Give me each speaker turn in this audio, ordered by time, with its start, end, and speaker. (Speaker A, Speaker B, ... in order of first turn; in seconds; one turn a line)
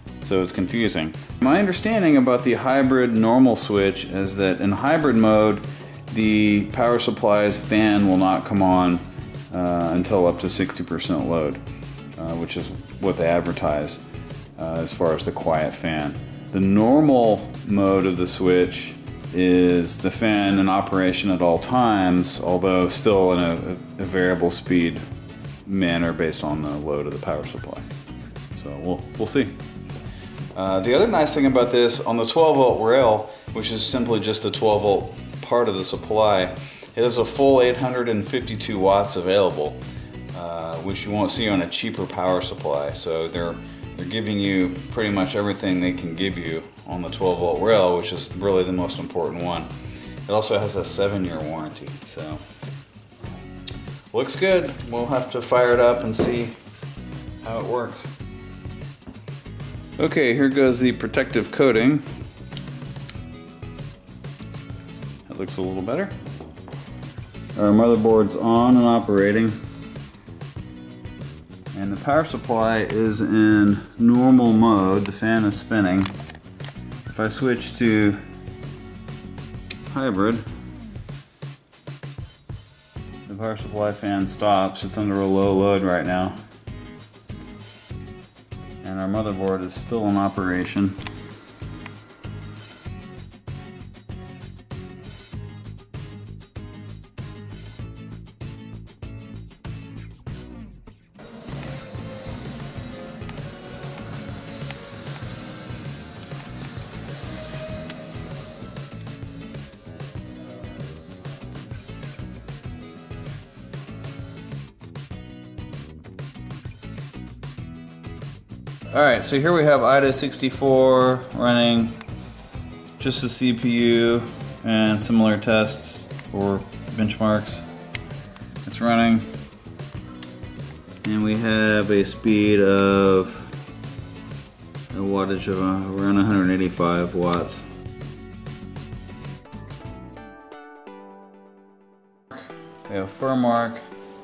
Speaker A: 0.2-11.6
Speaker A: 12.2-14.0
Speaker A: 14.6-25.0
Speaker A: 25.6-27.9
Speaker A: 28.5-29.6
Speaker A: 30.5-49.7
Speaker A: 50.2-52.4
Speaker A: 54.1-56.5
Speaker A: 57.4-58.1
Speaker A: 60.0-62.1
Speaker A: 65.3-66.1
Speaker A: 67.5-69.6
Speaker A: 71.7-76.1
Speaker A: 77.0-78.2
Speaker A: 79.9-80.5
Speaker A: 83.2-86.4
Speaker A: 88.8-91.0
Speaker A: 118.9-122.0
Speaker A: 123.0-127.6
Speaker A: 128.6-129.3
Speaker A: 131.0-133.5
Speaker A: 134.9-137.6
Speaker A: 142.9-143.8